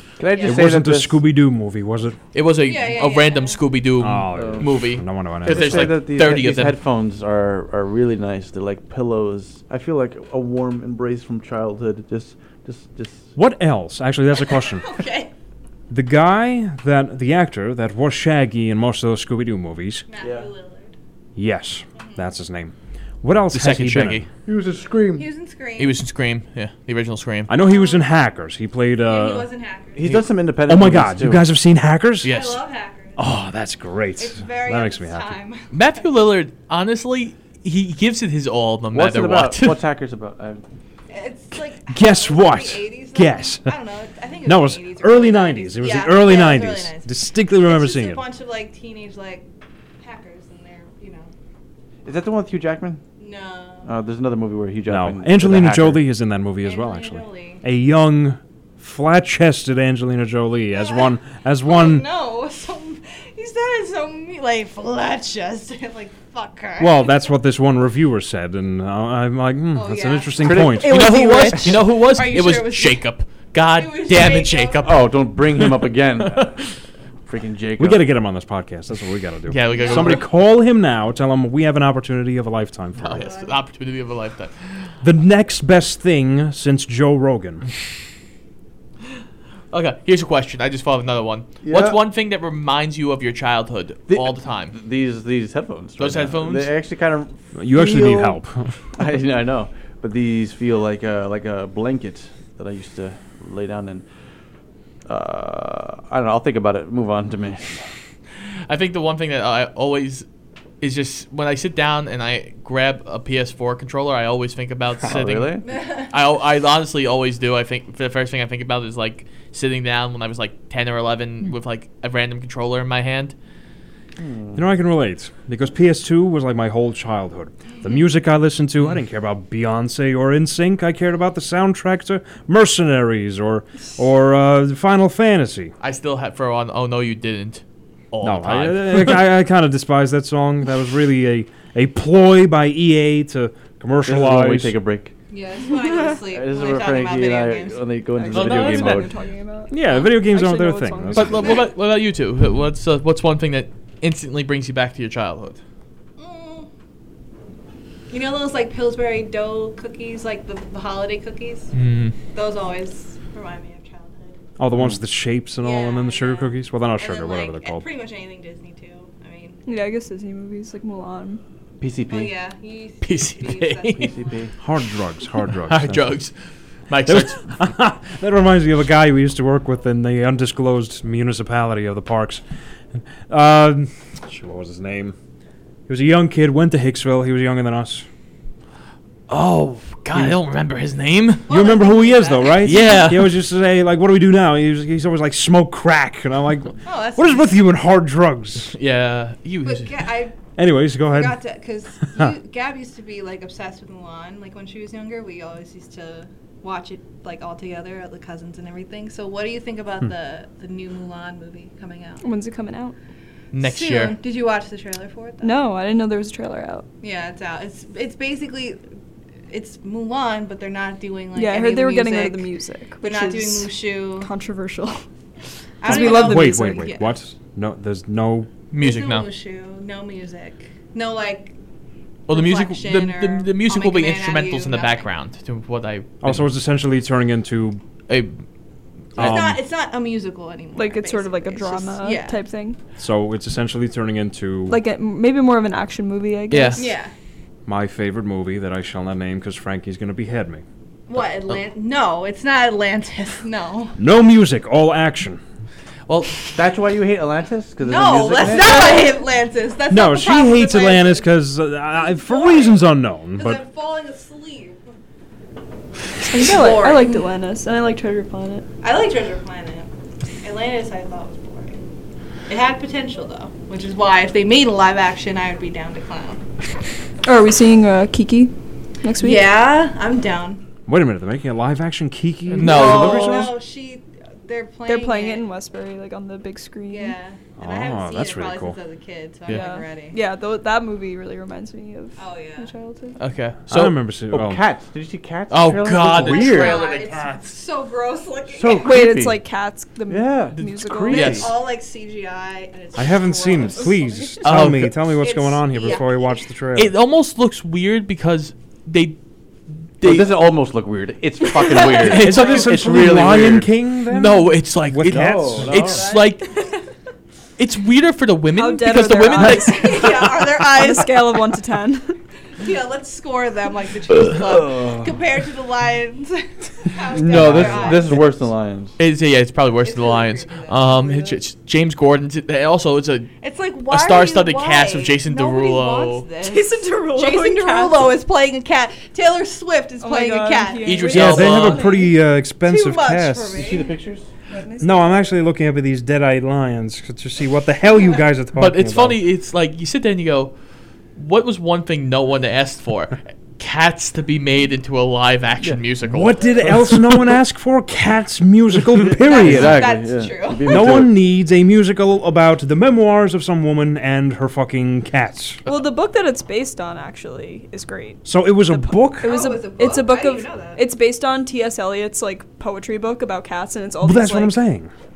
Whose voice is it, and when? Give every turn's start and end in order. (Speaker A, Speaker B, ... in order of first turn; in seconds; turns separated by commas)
Speaker A: 0.2-1.2, Speaker B: 0.4-2.2, Speaker C: 2.3-6.8, Speaker D: 2.6-3.6, Speaker B: 4.0-5.9, Speaker A: 4.3-4.7, Speaker A: 5.4-13.3, Speaker B: 13.3-14.8, Speaker D: 14.4-15.3, Speaker B: 15.9-20.1, Speaker D: 20.1-20.9, Speaker A: 20.2-20.5, Speaker B: 21.4-24.2, Speaker C: 23.5-24.3, Speaker A: 24.4-25.3, Speaker D: 25.1-26.0, Speaker C: 25.8-27.5, Speaker B: 27.5-29.5, Speaker D: 27.6-28.0, Speaker D: 29.0-30.1, Speaker A: 29.9-31.4, Speaker B: 30.7-32.4, Speaker C: 32.2-32.6, Speaker D: 32.3-33.2, Speaker B: 33.1-35.3, Speaker D: 34.2-36.0, Speaker C: 35.7-39.8, Speaker A: 38.9-40.6, Speaker D: 41.1-49.5, Speaker B: 41.9-43.7, Speaker B: 44.4-48.2, Speaker D: 50.0-51.3, Speaker A: 52.0-53.0, Speaker D: 53.2-53.9, Speaker A: 53.8-56.0, Speaker B: 54.9-62.0, Speaker D: 56.6-57.6, Speaker D: 60.7-61.1, Speaker D: 61.6-67.1, Speaker B: 66.8-71.3, Speaker D: 69.7-73.0, Speaker A: 70.4-71.8, Speaker C: 71.2-76.5, Speaker D: 73.7-75.0, Speaker A: 74.8-76.6, Speaker A: 77.3-78.0, Speaker B: 77.8-83.3, Speaker C: 79.5-80.3, Speaker D: 79.7-80.2, Speaker C: 83.0-84.9, Speaker D: 83.1-83.6, Speaker B: 85.0-87.7, Speaker C: 89.7-94.8, Speaker A: 91.6-92.0, Speaker A: 94.1-98.4, Speaker C: 96.0-96.7, Speaker B: 97.5-98.8, Speaker A: 98.9-104.0, Speaker A: 105.1-107.8, Speaker C: 108.7-110.2, Speaker C: 110.8-123.3, Speaker A: 115.0-115.7, Speaker D: 115.7-116.1, Speaker A: 124.2-124.6, Speaker B: 124.5-135.7, Speaker C: 135.8-139.2, Speaker B: 138.2-144.7, Speaker A: 144.1-145.1, Speaker D: 145.3-147.9, Speaker A: 146.3-149.1, Speaker E: 148.2-151.6, Speaker C: 148.3-149.0, Speaker B: 149.7-151.5, Speaker C: 151.1-155.6, Speaker D: 156.2-156.7, Speaker D: 158.1-161.7, Speaker C: 161.7-162.1, Speaker D: 162.3-164.4, Speaker B: 164.6-167.8, Speaker D: 165.6-169.6, Speaker E: 169.7-171.4, Speaker A: 171.8-172.3, Speaker D: 172.1-174.2, Speaker C: 173.0-174.1, Speaker A: 174.0-174.5, Speaker B: 174.6-176.2, Speaker C: 175.6-176.3, Speaker C: 176.9-177.4, Speaker B: 177.1-182.4, Speaker B: 182.9-185.2, Speaker B: 185.9-188.1, Speaker C: 189.3-191.5, Speaker B: 190.1-190.4, Speaker D: 191.5-193.1, Speaker B: 191.5-198.7, Speaker C: 192.6-193.4, Speaker D: 196.8-197.6, Speaker C: 198.7-199.9, Speaker D: 199.6-200.4, Speaker B: 200.6-201.4, Speaker D: 201.0-212.2, Speaker E: 212.2-212.9, Speaker C: 213.5-214.2, Speaker D: 213.6-215.5, Speaker E: 215.4-216.8, Speaker D: 217.0-218.8, Speaker D: 219.5-222.4, Speaker E: 221.3-225.0, Speaker D: 223.0-224.3, Speaker D: 225.8-227.1, Speaker E: 225.8-226.9, Speaker B: 225.8-228.5, Speaker C: 228.7-229.3, Speaker D: 228.8-231.5, Speaker D: 232.3-235.1, Speaker C: 232.3-236.4, Speaker B: 236.2-237.8, Speaker C: 238.1-238.4, Speaker B: 239.2-239.6, Speaker D: 239.2-242.4, Speaker E: 240.7-242.8, Speaker B: 243.0-244.8, Speaker E: 244.7-246.9, Speaker C: 246.5-246.8, Speaker D: 246.8-247.1, Speaker B: 247.7-250.6, Speaker D: 251.1-254.0, Speaker B: 254.0-255.4, Speaker C: 256.1-256.5, Speaker A: 256.5-259.1, Speaker D: 257.8-261.3, Speaker B: 259.9-263.6, Speaker D: 262.0-262.8, Speaker D: 263.4-264.9, Speaker E: 266.3-268.6, Speaker D: 266.3-267.2, Speaker D: 268.8-269.9, Speaker D: 270.4-271.8, Speaker D: 272.5-276.4, Speaker E: 277.2-279.5, Speaker D: 279.2-280.6, Speaker B: 280.9-283.6, Speaker C: 282.5-283.5, Speaker D: 282.6-285.4, Speaker E: 284.9-287.1, Speaker D: 286.9-290.2, Speaker B: 287.6-288.8, Speaker E: 289.5-293.2, Speaker D: 292.2-292.7, Speaker C: 293.2-294.0, Speaker B: 293.7-294.6, Speaker A: 294.3-297.0, Speaker C: 295.5-297.2, Speaker D: 296.0-298.9, Speaker A: 298.5-299.4, Speaker E: 298.7-301.4, Speaker A: 300.1-301.5, Speaker C: 300.6-301.5, Speaker D: 301.2-304.0, Speaker B: 302.9-306.9, Speaker E: 303.7-304.5, Speaker C: 304.4-305.1, Speaker D: 305.2-306.4, Speaker C: 306.8-309.2, Speaker C: 310.0-310.4, Speaker A: 310.0-313.7, Speaker C: 311.7-312.9, Speaker D: 311.9-312.3, Speaker B: 312.1-316.1, Speaker C: 314.1-316.6, Speaker A: 315.1-316.2, Speaker D: 316.1-316.7, Speaker C: 317.6-320.2, Speaker E: 318.5-322.2, Speaker D: 319.5-321.2, Speaker D: 322.6-328.3, Speaker A: 324.1-325.1, Speaker A: 327.1-329.0, Speaker B: 327.3-328.0, Speaker C: 329.0-333.3, Speaker D: 329.8-331.4, Speaker D: 333.4-341.4, Speaker C: 333.9-336.3, Speaker E: 336.4-338.2, Speaker E: 340.0-342.1, Speaker C: 340.8-341.9, Speaker B: 341.1-343.7, Speaker D: 342.6-343.9, Speaker A: 343.6-344.3, Speaker E: 344.5-345.3, Speaker B: 344.8-349.2, Speaker C: 348.5-350.5, Speaker C: 351.1-356.7, Speaker B: 356.1-360.0, Speaker A: 358.9-361.1, Speaker D: 359.2-361.0, Speaker B: 360.6-365.6, Speaker E: 365.6-374.6, Speaker B: 368.2-369.3, Speaker D: 369.2-370.8, Speaker B: 374.0-374.9